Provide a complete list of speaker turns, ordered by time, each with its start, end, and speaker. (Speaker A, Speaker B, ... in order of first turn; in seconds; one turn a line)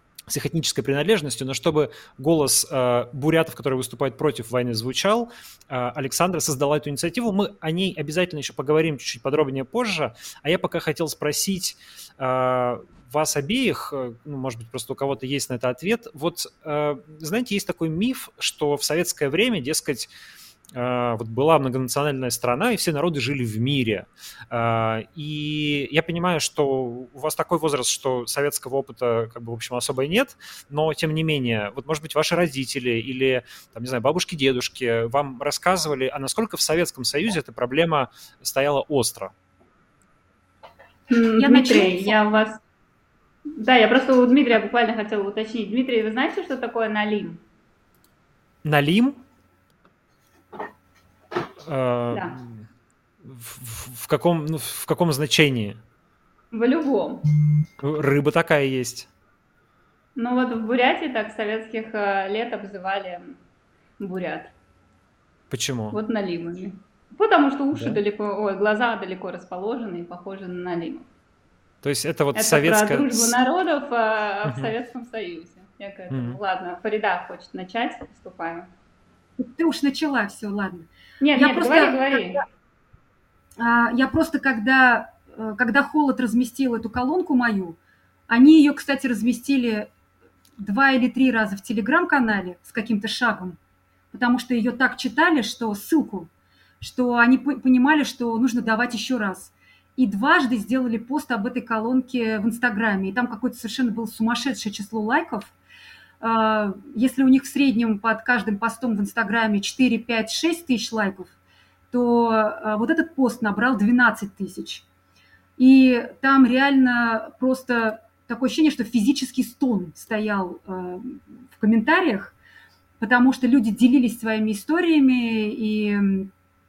Speaker A: 0.3-20.1
Speaker A: 20.7-39.3
Speaker B: 41.1-42.6
Speaker C: 41.4-42.2
Speaker B: 43.6-47.4
Speaker A: 48.6-49.2
Speaker A: 51.6-52.5
Speaker B: 52.1-52.4
Speaker A: 53.2-55.8
Speaker B: 56.5-57.2
Speaker A: 57.8-59.1
Speaker B: 60.1-63.4
Speaker B: 64.0-64.5
Speaker A: 65.5-66.0
Speaker B: 65.9-71.0
Speaker A: 67.7-68.0
Speaker A: 71.8-73.3
Speaker B: 72.3-78.7
Speaker A: 74.4-74.7
Speaker A: 76.1-76.4
Speaker C: 79.4-82.4
Speaker B: 81.2-82.4
Speaker C: 83.6-87.8
Speaker C: 88.3-89.9
Speaker C: 90.6-93.6
Speaker C: 94.1-96.3
Speaker C: 96.8-105.5
Speaker C: 106.2-111.3
Speaker C: 111.9-114.8
Speaker C: 115.6-122.3
Speaker C: 123.0-126.3